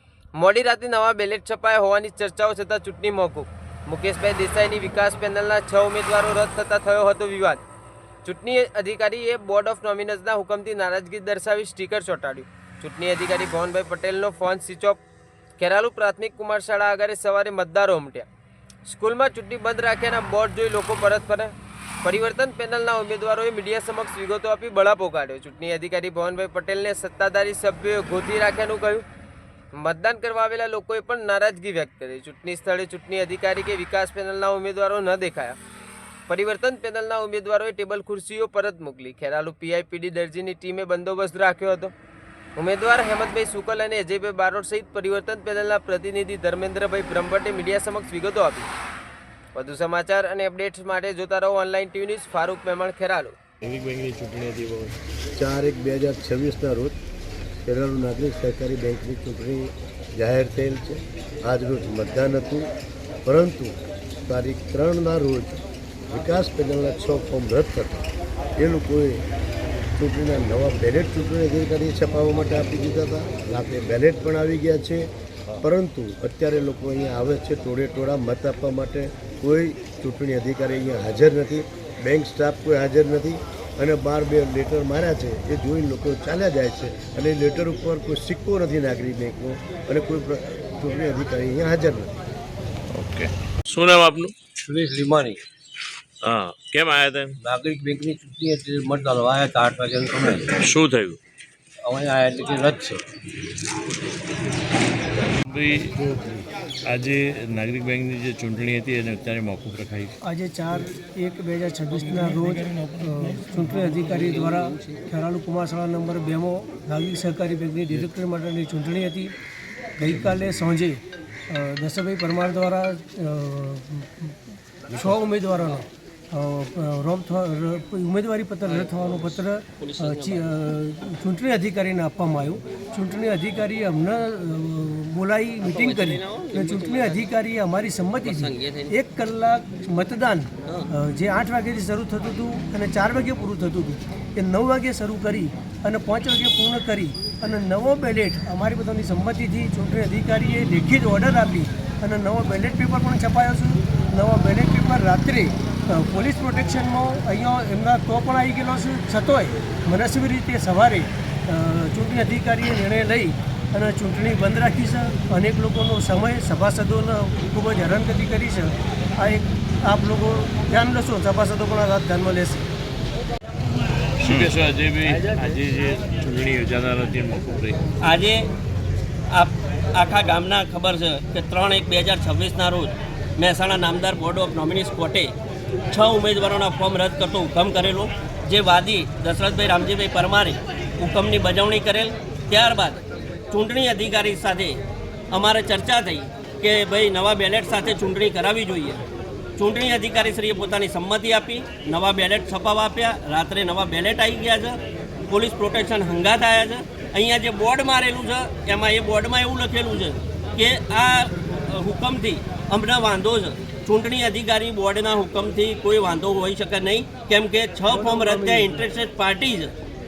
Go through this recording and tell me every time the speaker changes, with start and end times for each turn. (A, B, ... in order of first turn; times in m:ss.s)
0:00.4-0:07.6 A
0:08.2-0:15.0 A
0:15.6-0:18.3 A
0:18.9-0:21.5 A
0:22.0-0:29.0 A
0:29.7-0:35.6 A
0:36.3-0:41.9 A
0:42.6-0:48.7 A
0:49.5-0:53.4 A
0:53.6-0:54.9 B
0:55.4-0:57.0 C
0:57.6-1:02.7 C
1:03.2-1:03.7 C
1:04.2-1:08.0 C
1:08.6-1:09.2 C
1:10.0-1:15.1 C
1:15.6-1:32.1 C
1:32.9-1:34.3 B
1:34.7-1:35.4 D
1:36.2-1:37.4 B
1:37.4-1:40.6 D
1:37.8-1:38.5 E
1:40.4-1:41.2 B
1:41.9-1:43.0 D
1:45.5-1:50.1 B
1:50.2-1:59.3 F
1:54.1-1:54.9 E
2:00.0-2:04.4 F
2:04.9-2:52.6 F
2:08.6-2:10.6 E
2:15.6-2:17.3 E
2:18.2-2:18.9 E
2:54.2-2:57.8 B
2:58.0-2:58.5 E
2:59.3-3:05.3 E
3:05.9-3:19.0 E
3:19.6-3:39.7 E
3:37.9-3:38.8 F